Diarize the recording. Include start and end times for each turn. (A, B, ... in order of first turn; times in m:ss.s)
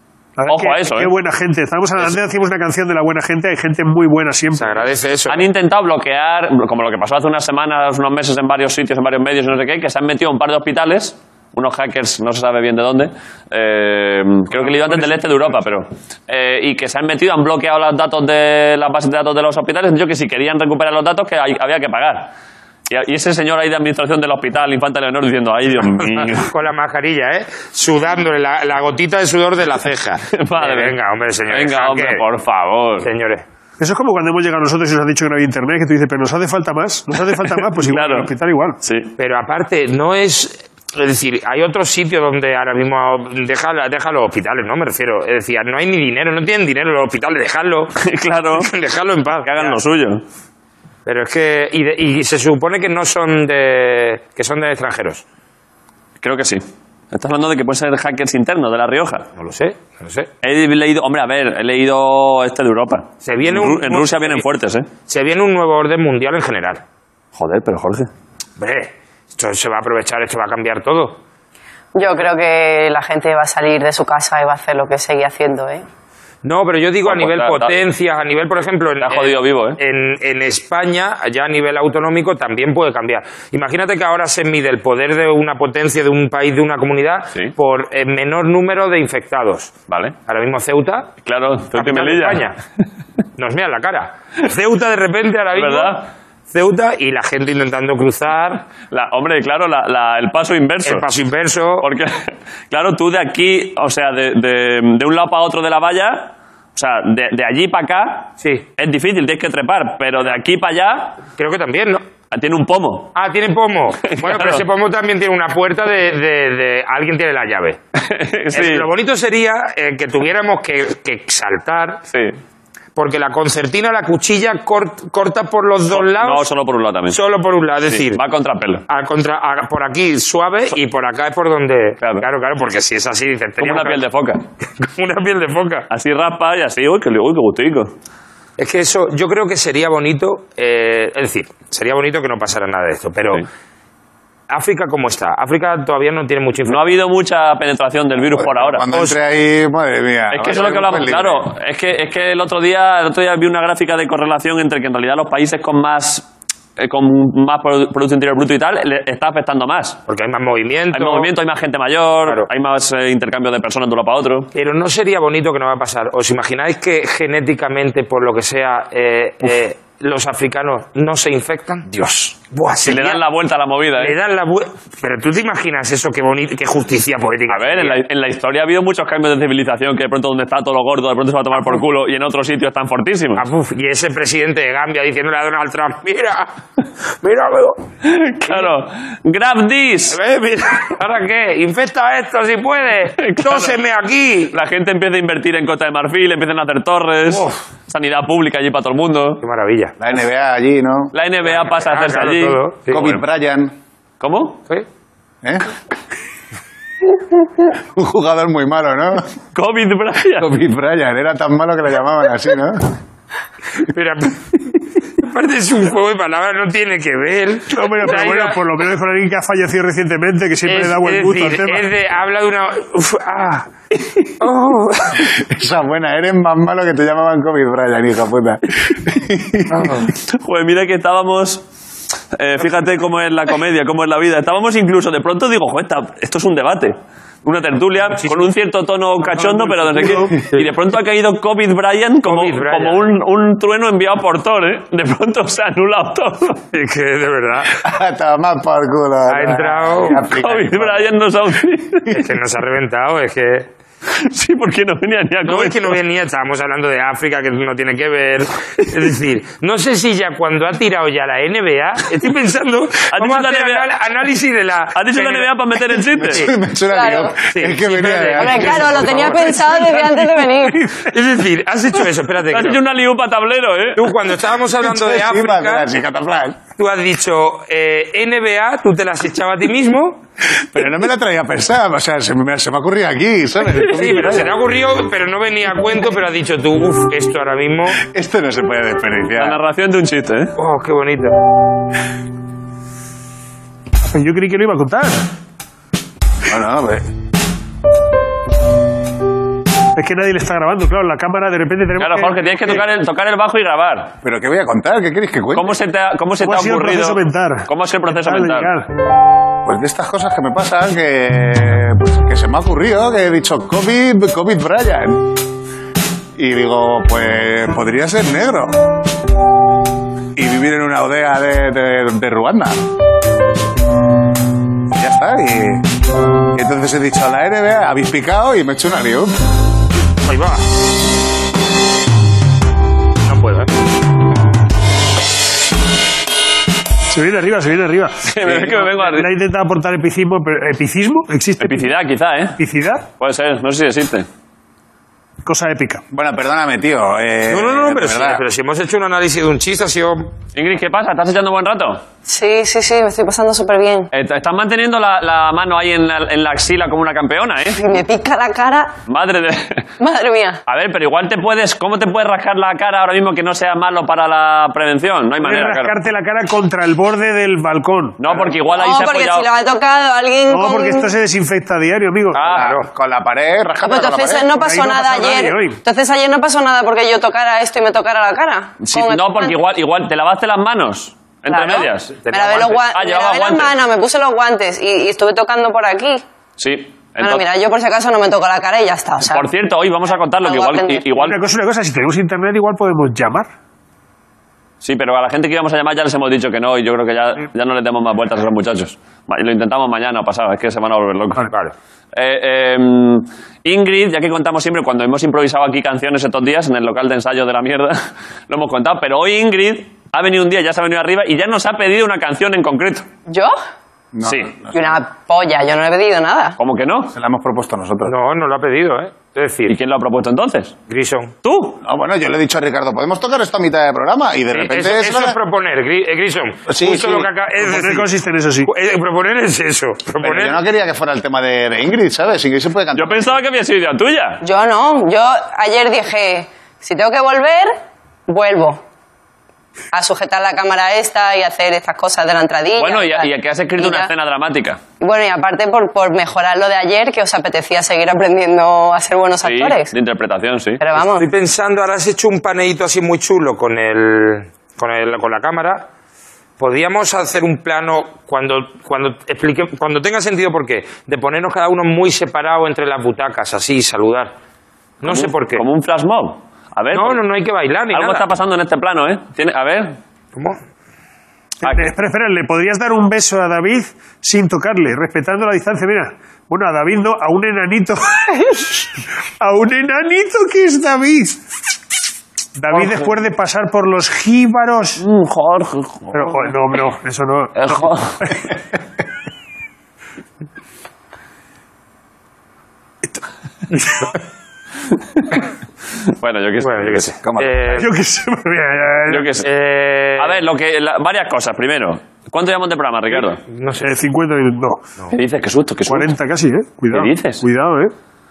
0:00.4-0:04.9 A
0:00.5-0:01.1 B
0:04.6-0:05.5 C
0:05.3-0:22.3 B
0:22.9-0:26.5 B
0:26.2-0:32.2 C
0:30.3-0:31.0 B
0:31.5-0:33.1 B
0:33.0-0:33.4 C
0:33.8-0:38.8 A
0:37.3-0:38.3 B
0:38.8-0:39.2 B
0:39.2-0:47.9 C
0:48.0-0:48.7 B
0:48.6-0:49.8 C
0:49.4-0:50.2 B
0:51.1-0:55.2 C
0:56.2-0:59.3 B
0:59.4-1:00.3 C
1:00.4-1:04.9 B
1:03.2-1:04.4 C
1:05.1-1:06.8 C
1:07.4-1:08.1 B
1:08.6-1:11.2 C
1:12.0-1:15.8 D
1:16.4-1:29.7 C
1:17.0-1:17.8 B
1:19.0-1:19.8 B
1:29.9-1:30.2 B
1:30.3-1:31.1 C
1:31.2-1:32.5 B
1:31.7-1:32.6 C
1:33.4-1:38.6 C
1:35.5-1:36.1 B
1:38.9-1:41.1 B
1:40.8-1:41.9 C
1:41.8-1:51.2 B
1:51.4-1:52.0 C
1:52.3-1:53.1 B
1:53.2-1:57.8 C
1:54.1-1:54.6 B
1:58.0-1:58.9 B
1:58.5-2:02.0 C
2:02.1-2:02.4 B
2:03.0-2:06.5 C
2:05.9-2:07.2 B
2:07.1-2:08.2 C
2:07.9-2:08.8 B
2:08.9-2:14.0 C
2:12.0-2:12.3 B
2:13.6-2:14.4 B
2:14.8-2:15.9 C
2:15.9-2:17.9 B
2:18.6-2:23.5 C
2:24.5-2:26.8 C
2:26.7-2:28.8 B
2:28.4-2:31.5 E
2:30.3-2:40.0 B
2:40.1-2:41.3 C
2:40.9-2:44.5 B
2:44.5-2:53.2 C
2:52.8-2:54.2 B
2:54.0-2:58.0 C
2:57.5-3:03.5 B
3:03.4-3:07.8 C
3:08.0-3:10.2 B
3:10.1-3:14.5 C
3:13.2-3:13.8 B
3:14.5-3:19.4 B
3:17.3-3:17.6 C
3:19.4-3:20.0 C
3:20.0-3:21.1 E
3:21.1-3:23.1 B
3:21.4-3:23.2 C
3:22.9-3:23.7 E
3:24.2-3:24.6 B
3:25.4-3:25.7 E
3:27.7-3:29.3 E
3:29.6-3:30.5 B
3:30.4-3:32.9 E
3:33.8-3:38.6 C
3:37.7-3:41.9 A
3:40.7-3:43.7 C
3:44.4-3:45.3 C
3:45.2-3:50.0 E
3:49.7-3:50.1 C
3:50.1-3:51.6 B
3:52.3-4:06.6 B
3:58.2-3:58.5 C
3:59.6-4:00.3 A
4:00.3-4:00.7 C
4:02.2-4:03.1 C
4:06.7-4:07.8 C
4:07.8-4:11.1 E
4:09.3-4:10.2 C
4:10.4-4:12.2 B
4:12.1-4:13.7 C
4:14.1-4:16.0 B
4:15.5-4:25.5 C
4:23.1-4:23.9 B
4:24.9-4:26.5 B
4:26.1-4:29.6 E
4:26.9-4:27.4 D
4:27.5-4:29.8 C
4:28.4-4:30.9 D
4:30.9-4:32.8 C
4:32.5-4:34.2 B
4:34.0-4:35.9 C
4:34.8-4:36.6 E
4:36.8-4:40.2 C
4:40.6-4:44.6 E
4:43.8-4:48.0 C
4:48.0-4:49.6 E
4:49.4-4:50.5 B
4:50.6-4:51.4 C
4:54.0-4:55.3 A
4:56.4-4:57.1 E
5:00.0-5:02.8 A
5:02.0-5:04.2 B
5:04.2-5:05.8 E
5:05.6-5:08.7 B
5:06.4-5:08.9 A
5:09.6-5:15.4 E
5:16.4-5:18.8 E
5:20.4-5:22.8 E
5:24.9-5:25.9 E
5:26.5-5:29.3 E
5:30.2-5:30.6 C
5:33.2-5:33.7 C
5:37.1-5:41.9 A
5:38.3-5:39.3 B
5:41.6-5:42.6 B
5:42.6-5:43.1 A
5:43.2-5:44.3 B
5:45.4-5:46.0 A
5:46.1-5:48.4 E
5:47.5-5:50.3 C
5:50.6-5:52.0 B
5:52.3-5:54.1 D
5:54.1-5:57.8 B
5:57.8-5:59.0 D
5:59.1-5:59.9 B
6:00.0-6:00.6 D
6:00.7-6:06.0 B
6:05.4-6:08.2 A
6:08.2-6:09.5 B
6:08.7-6:11.1 D
6:10.5-6:12.4 A
6:12.4-6:12.9 C
6:12.4-6:12.7 B
6:12.4-6:14.5 E
6:13.8-6:19.6 D
6:14.5-6:15.8 A
6:18.8-6:22.1 B
6:21.5-6:26.2 D
6:22.2-6:22.8 C
6:22.9-6:23.7 B
6:26.6-6:27.4 B
6:27.2-6:29.5 D
6:29.3-6:31.4 B
6:30.4-6:31.1 D
6:31.2-6:33.5 A
6:34.8-6:41.5 B
6:41.5-6:41.7 C
6:42.1-6:53.1 B
6:53.3-6:53.6 D
6:54.1-6:55.0 E
6:54.2-6:54.5 B
6:54.7-6:56.6 D
6:56.6-6:57.1 B
6:57.1-6:58.1 E
6:58.1-6:59.7 C
6:59.7-7:00.8 B
7:00.9-7:01.3 C
7:01.4-7:01.8 B
7:01.8-7:05.4 E
7:04.5-7:08.1 C
7:06.7-7:07.3 E
7:07.6-7:08.7 A
7:08.7-7:10.6 C
7:10.2-7:13.2 E
7:13.0-7:14.4 B
7:14.4-7:17.8 D
7:18.3-7:18.8 D
7:19.9-7:24.1 D
7:22.8-7:24.8 B
7:25.0-7:29.9 D
7:29.4-7:30.8 B
7:30.8-7:31.3 D
7:31.0-7:35.9 C
7:36.6-7:44.3 C
7:45.0-7:45.6 C
7:45.0-7:47.2 B
7:46.9-7:48.3 C
7:47.9-7:50.0 B
7:51.6-8:01.4 A
7:51.6-7:51.9 B
8:02.6-8:05.0 A
8:05.0-8:06.5 B
8:06.1-8:08.4 A
8:07.6-8:08.4 B
8:16.1-8:17.2 B
8:16.6-8:17.9 C
8:17.2-8:17.6 E
8:17.7-8:19.3 A
8:19.1-8:19.5 B
8:19.4-8:20.4 C
8:20.2-8:23.4 B
8:23.1-8:23.9 C
8:23.8-8:24.8 A
8:25.1-8:26.1 B
8:25.9-8:27.9 A
8:26.9-8:27.4 B